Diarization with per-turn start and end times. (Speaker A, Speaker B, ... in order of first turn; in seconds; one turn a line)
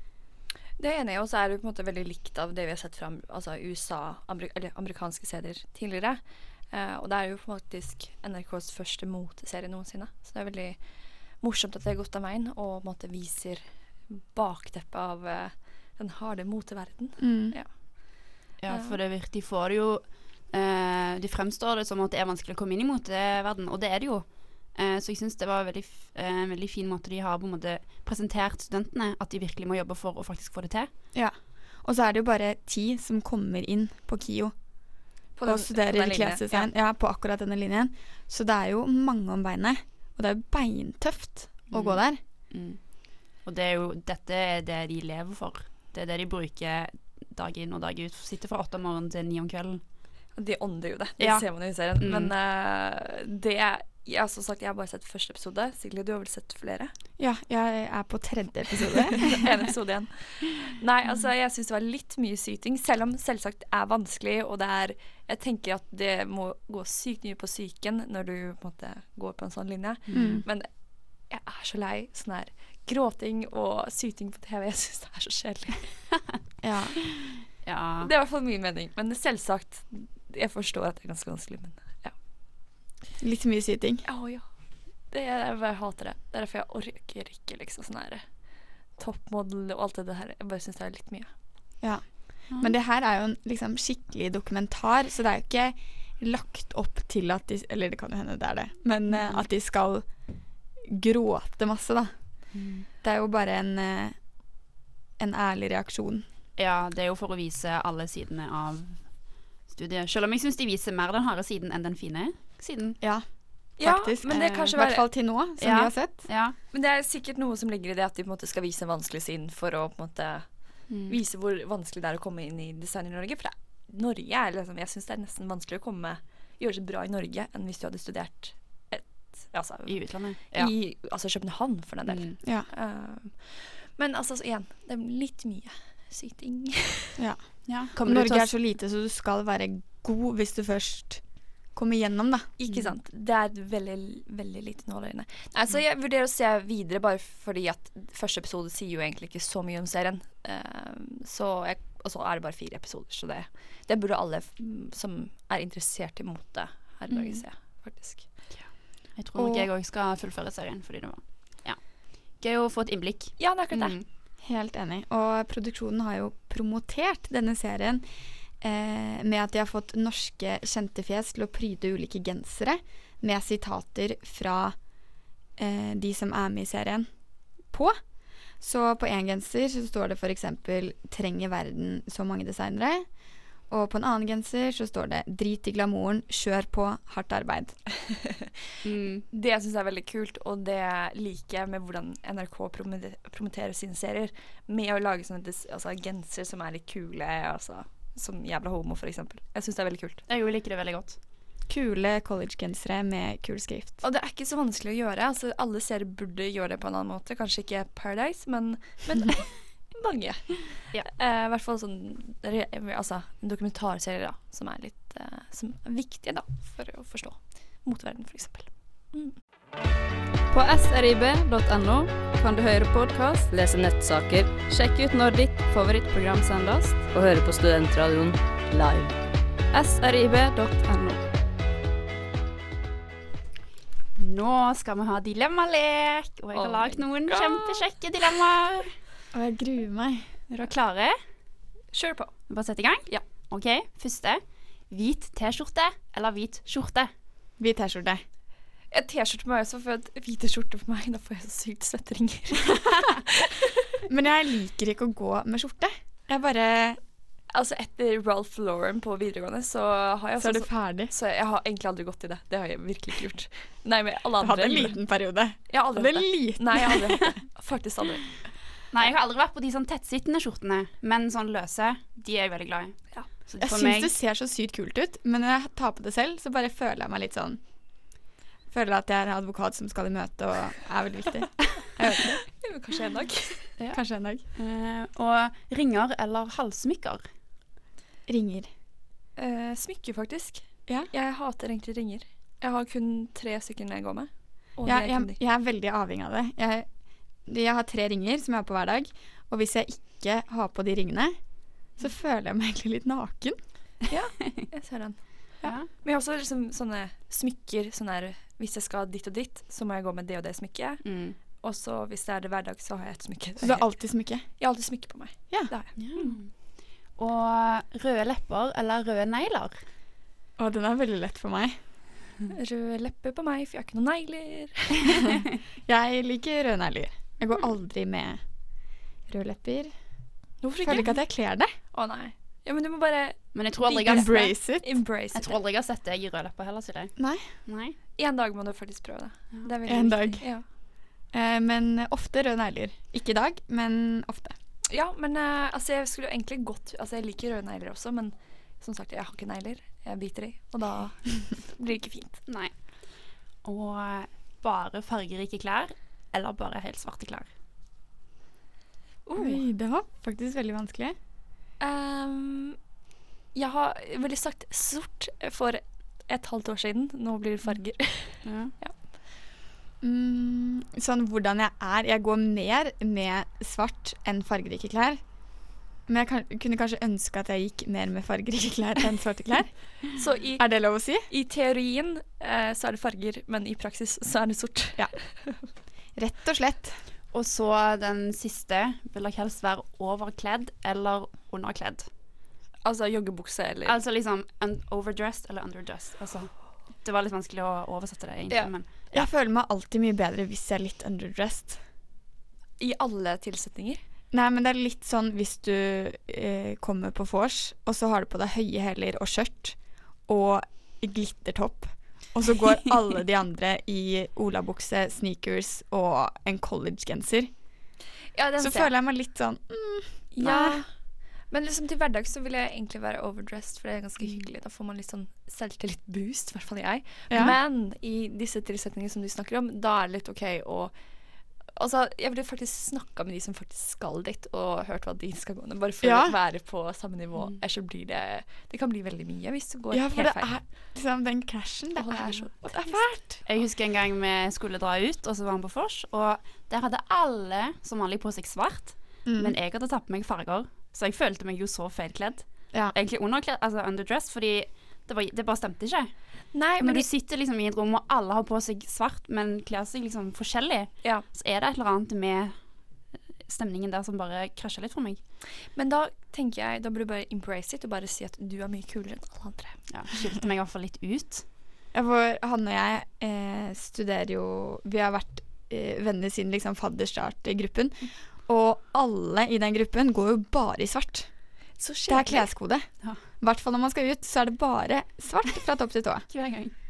Speaker A: 0.8-19.0
Speaker B: 17.2-17.6
Speaker C: 18.6-30.9
Speaker B: 31.1-34.5
Speaker A: 35.4-36.7
Speaker B: 35.5-42.2
Speaker C: 41.7-49.8
Speaker A: 50.4-56.9
Speaker C: 51.2-52.3
Speaker B: 57.2-59.3
Speaker A: 59.4-76.0
Speaker C: 70.1-70.4
Speaker B: 70.1-70.5
Speaker B: 76.6-77.0
Speaker C: 77.6-78.1
Speaker A: 78.0-82.2
Speaker B: 83.2-84.0
Speaker A: 84.0-91.3
Speaker B: 91.8-100.1
Speaker C: 92.5-92.8
Speaker C: 99.1-99.5
Speaker B: 100.8-102.5
Speaker C: 102.5-102.9
Speaker B: 103.0-104.3
Speaker B: 105.2-106.3
Speaker C: 106.6-113.0
Speaker B: 113.0-116.3
Speaker A: 113.8-115.1
Speaker C: 115.6-116.6
Speaker A: 116.7-137.2
Speaker C: 120.9-121.2
Speaker C: 129.9-130.7
Speaker C: 132.1-132.3
Speaker B: 137.2-142.5
Speaker C: 137.7-138.5
Speaker A: 142.6-158.5
Speaker C: 157.1-157.4
Speaker C: 158.5-164.0
Speaker B: 159.4-159.7
Speaker A: 163.4-164.0
Speaker B: 164.4-168.1
Speaker B: 168.6-174.8
Speaker B: 175.6-177.1
Speaker B: 177.6-178.0
Speaker B: 178.6-183.1
Speaker B: 183.7-187.8
Speaker C: 188.8-189.2
Speaker A: 189.3-200.2
Speaker C: 200.3-201.2
Speaker B: 201.7-204.0
Speaker A: 204.0-219.4
Speaker D: 220.5-223.5
Speaker E: 223.5-224.6
Speaker D: 224.6-227.1
Speaker E: 227.1-229.2
Speaker D: 229.7-231.2
Speaker C: 234.2-238.9
Speaker A: 236.5-237.8
Speaker B: 239.3-240.3
Speaker C: 240.5-241.2
Speaker A: 241.9-242.4
Speaker C: 242.5-247.1
Speaker B: 247.6-248.2
Speaker A: 248.9-253.6
Speaker B: 254.1-257.0
Speaker A: 257.5-265.0
Speaker B: 260.4-261.1
Speaker B: 264.4-267.4
Speaker A: 265.7-268.3
Speaker C: 268.9-274.1
Speaker B: 273.6-277.6
Speaker B: 278.7-282.4
Speaker A: 282.6-283.7
Speaker C: 283.8-287.3
Speaker B: 283.9-284.4
Speaker B: 288.3-288.7
Speaker A: 289.4-295.4
Speaker B: 294.9-296.9
Speaker B: 297.5-301.4
Speaker B: 301.9-303.6
Speaker A: 304.1-305.2
Speaker C: 305.6-305.9
Speaker A: 305.9-311.0
Speaker C: 311.0-311.4
Speaker A: 311.6-316.4
Speaker B: 313.6-314.5
Speaker C: 316.0-316.6
Speaker C: 317.2-319.9
Speaker B: 320.6-321.8
Speaker A: 322.5-325.3
Speaker B: 325.9-328.4
Speaker B: 329.3-329.9
Speaker A: 330.6-331.2
Speaker B: 330.8-331.7
Speaker A: 331.9-335.6
Speaker C: 333.5-334.5
Speaker B: 334.1-335.0
Speaker C: 335.3-338.0
Speaker B: 337.2-337.5
Speaker A: 338.2-340.6
Speaker B: 339.9-340.5
Speaker B: 341.3-344.6
Speaker A: 344.9-352.4
Speaker C: 352.5-352.7
Speaker C: 353.6-357.5
Speaker A: 359.3-359.6
Speaker B: 359.4-361.2
Speaker A: 361.8-362.8
Speaker A: 363.6-368.9
Speaker C: 368.4-368.7
Speaker B: 370.0-375.2
Speaker B: 376.1-380.0
Speaker A: 380.1-385.6
Speaker B: 380.6-381.3
Speaker B: 386.1-387.0
Speaker C: 387.3-392.1
Speaker A: 392.8-394.0
Speaker C: 393.9-398.9
Speaker A: 398.5-399.3
Speaker B: 399.1-401.8
Speaker A: 402.8-404.0
Speaker B: 404.3-417.5
Speaker A: 418.4-418.9
Speaker B: 418.6-420.8
Speaker A: 420.3-420.9
Speaker A: 421.5-430.9
Speaker B: 427.3-427.6
Speaker A: 431.7-440.6
Speaker B: 436.0-436.4
Speaker B: 439.9-443.4
Speaker A: 442.0-443.5
Speaker C: 443.4-456.1
Speaker B: 449.2-449.6
Speaker A: 456.5-457.1
Speaker C: 456.8-462.6
Speaker C: 463.4-465.2
Speaker A: 465.8-469.8
Speaker C: 469.9-471.4
Speaker B: 471.9-481.3
Speaker A: 481.8-482.5
Speaker B: 482.1-486.3
Speaker C: 486.3-486.8